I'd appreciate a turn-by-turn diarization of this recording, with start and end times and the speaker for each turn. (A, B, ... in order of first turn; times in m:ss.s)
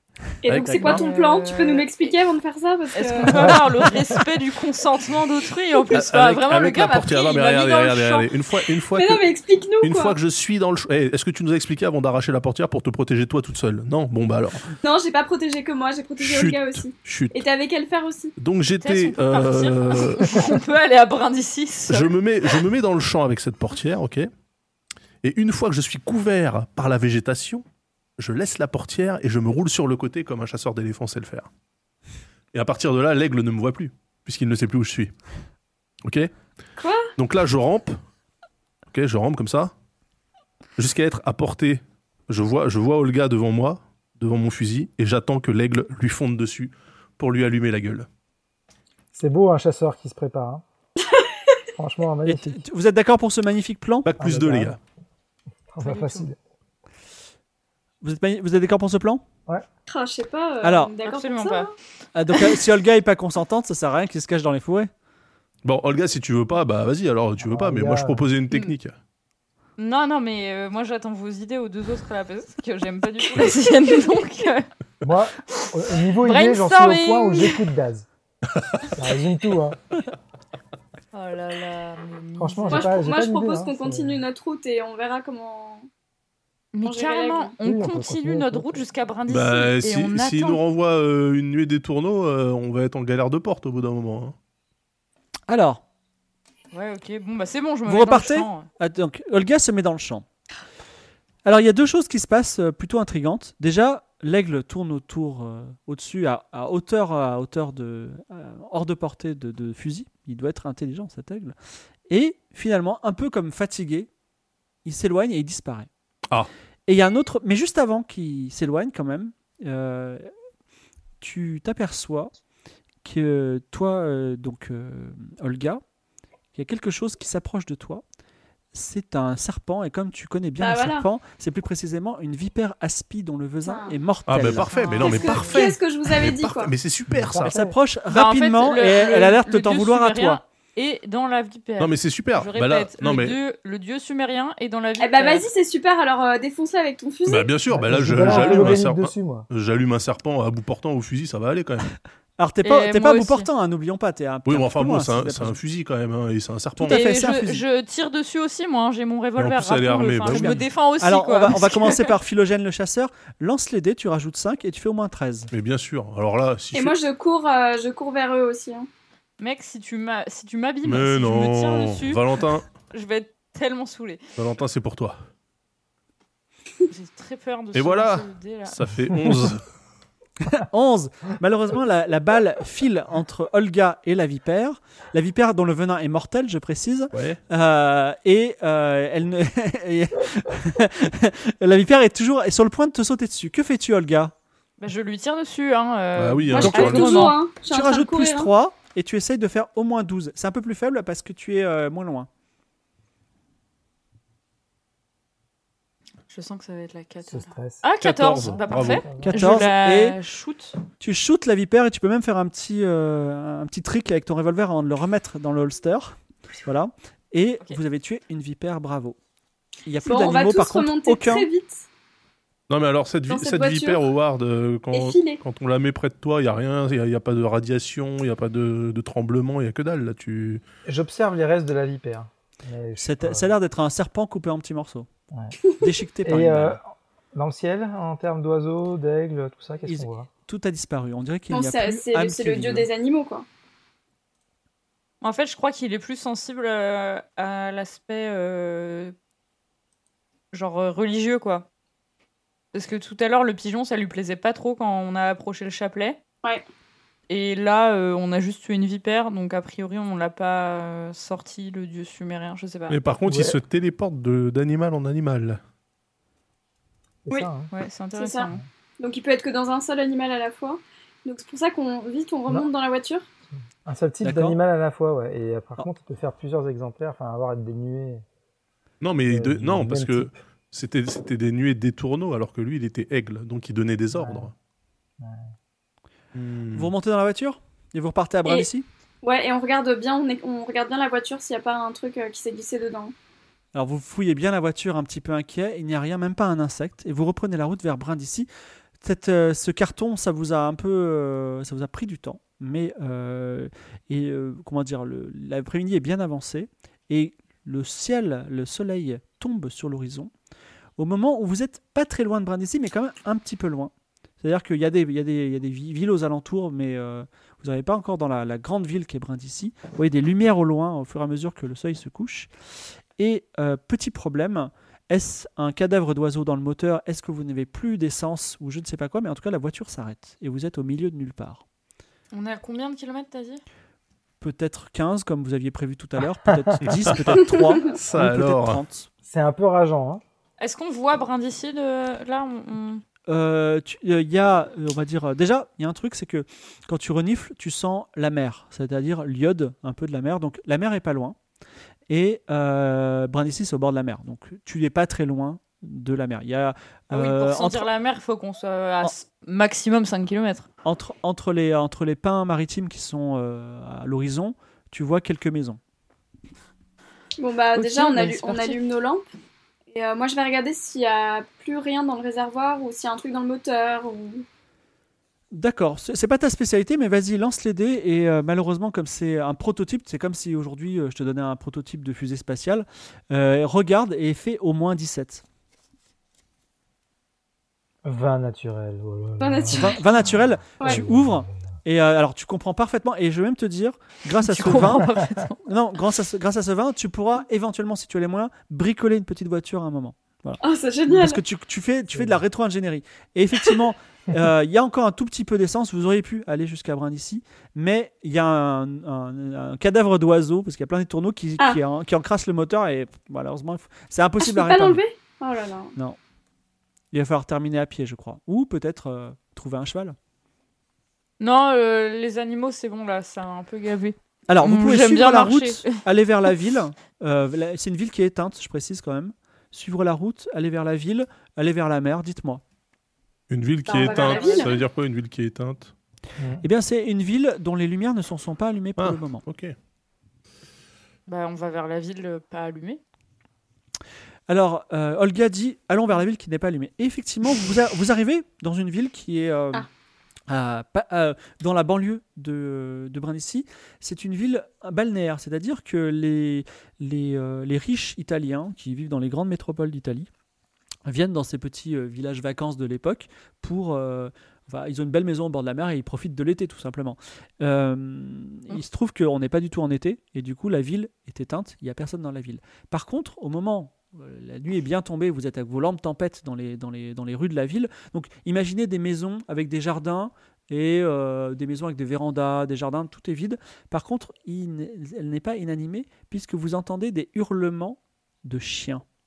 0:00.4-0:03.6 A
0:00.4-0:01.0 B
0:00.8-0:02.1 C
0:02.9-0:07.2 C
0:03.3-0:03.6 D
0:05.9-0:09.2 B
0:06.9-0:10.2 A
0:09.8-0:14.7 B
0:14.8-0:18.3 A
0:16.2-0:17.4 B
0:18.4-0:20.5 B
0:18.8-0:22.1 C
0:21.9-0:24.3 B
0:25.2-0:27.6 B
0:28.2-0:31.5 B
0:32.5-0:35.1 B
0:36.0-0:36.3 B
0:36.8-0:37.1 A
0:37.2-0:38.0 B
0:38.9-0:39.7 B
0:40.8-0:48.1 B
0:49.1-0:50.6 D
0:51.0-0:51.5 A
0:51.8-0:52.6 D
0:52.2-0:54.1 E
0:54.0-0:54.8 B
0:54.2-0:54.8 D
0:55.7-0:56.4 D
0:55.8-0:56.3 C
0:58.0-0:59.2 E
0:59.9-1:01.7 A
1:00.6-1:00.9 E
1:01.0-1:01.7 C
1:02.1-1:04.9 E
1:05.6-1:08.9 B
1:07.4-1:08.2 D
1:09.8-1:14.7 C
1:15.0-1:18.1 D
1:16.2-1:17.6 C
1:19.0-1:19.8 D
1:21.1-1:23.0 C
1:22.4-1:24.2 D
1:22.7-1:25.9 A
1:26.7-1:30.6 C
1:26.8-1:27.5 A
1:27.6-1:28.8 D
1:29.3-1:34.3 B
1:35.5-1:35.8 E
1:36.7-1:38.7 C
1:37.9-1:40.2 E
1:41.4-1:51.5 E
1:52.1-1:54.1 E
1:54.8-1:55.9 E
1:56.9-2:00.3 E
2:01.2-2:02.3 E
2:03.0-2:05.8 E
2:06.5-2:08.0 E
2:08.7-2:14.8 E
2:10.6-2:11.1 A
2:13.6-2:14.0 A
2:14.3-2:17.5 B
2:14.6-2:15.7 C
2:14.9-2:16.7 A
2:17.1-2:17.8 D
2:17.4-2:20.4 E
2:18.1-2:25.5 C
2:21.8-2:23.4 B
2:25.0-2:27.5 A
2:27.2-2:31.9 B
2:27.7-2:29.5 D
2:28.2-2:28.8 C
2:32.4-2:35.6 E
2:32.6-2:33.5 C
2:34.4-2:37.1 B
2:36.8-2:37.6 E
2:36.9-2:42.1 C
2:39.4-2:40.6 B
2:40.2-2:45.5 E
2:45.5-2:46.9 B
2:46.7-2:48.9 A
2:49.4-2:52.2 C
2:50.8-2:52.6 B
2:52.9-2:54.2 C
2:54.4-2:55.2 B
2:56.9-2:58.8 C
2:57.7-2:59.6 B
3:00.5-3:14.3 E
3:07.1-3:07.4 B
3:14.8-3:17.4 C
3:16.2-3:17.3 B
3:16.5-3:18.5 A
3:16.6-3:22.3 E
3:26.3-3:30.8 C
3:27.2-3:27.8 D
3:28.0-3:29.2 B
3:28.4-3:29.5 D
3:29.2-3:30.2 E
3:31.0-3:39.2 E
3:39.8-3:41.5 E
3:40.0-3:41.8 A
3:42.7-3:50.6 B
3:43.3-3:44.0 A
3:44.9-3:45.4 A
3:50.8-3:53.5 D
3:53.0-3:55.1 E
3:55.7-3:56.8 E
3:56.2-4:00.3 D
3:59.8-4:02.9 E
4:01.5-4:03.4 A
4:05.2-4:09.1 C
4:10.5-4:11.7 C
4:12.7-4:16.2 C
4:17.3-4:23.0 C
4:22.9-4:25.6 B
4:23.2-4:23.6 D
4:27.2-4:27.7 D
4:27.7-4:28.6 C
4:28.1-4:33.3 A
4:33.8-4:38.2 D
4:34.2-4:34.6 E
4:39.0-4:44.5 B
4:39.3-4:40.3 D
4:44.1-4:44.5 D
4:45.2-4:45.5 D
4:46.3-4:46.9 B
4:46.7-4:48.8 E
4:49.2-4:53.1 A
4:53.7-4:58.5 E
4:59.0-5:10.3 E
5:11.0-5:22.5 E
5:23.2-5:31.6 E
5:32.3-5:33.6 C
5:34.4-5:39.1 E
5:36.8-5:38.8 B
5:39.2-5:40.2 D
5:40.6-5:43.0 C
5:43.3-5:51.4 E
5:52.1-5:57.9 E
5:57.1-6:00.7 C
6:00.8-6:05.8 E
6:07.4-6:09.2 A
6:07.8-6:08.8 C
6:09.9-6:14.4 A
6:15.5-6:25.4 E
6:28.0-6:31.6 D
6:29.4-6:30.0 A
6:29.7-6:35.1 E
6:30.8-6:31.0 A
6:34.4-6:35.6 C
6:34.7-6:35.1 D
6:35.6-6:55.0 E
6:40.6-6:41.4 A
6:54.4-6:55.9 A
6:57.1-7:00.2 E
7:01.4-7:06.0 C
7:04.5-7:12.6 E
7:13.5-7:15.9 B
7:13.9-7:14.7 A
7:13.9-7:14.8 C
7:16.4-7:16.6 D
7:16.6-7:19.4 E
7:19.0-7:19.7 B
7:21.3-7:23.0 C
7:24.5-7:29.9 E
7:30.5-7:40.3 E
7:41.0-8:09.0 E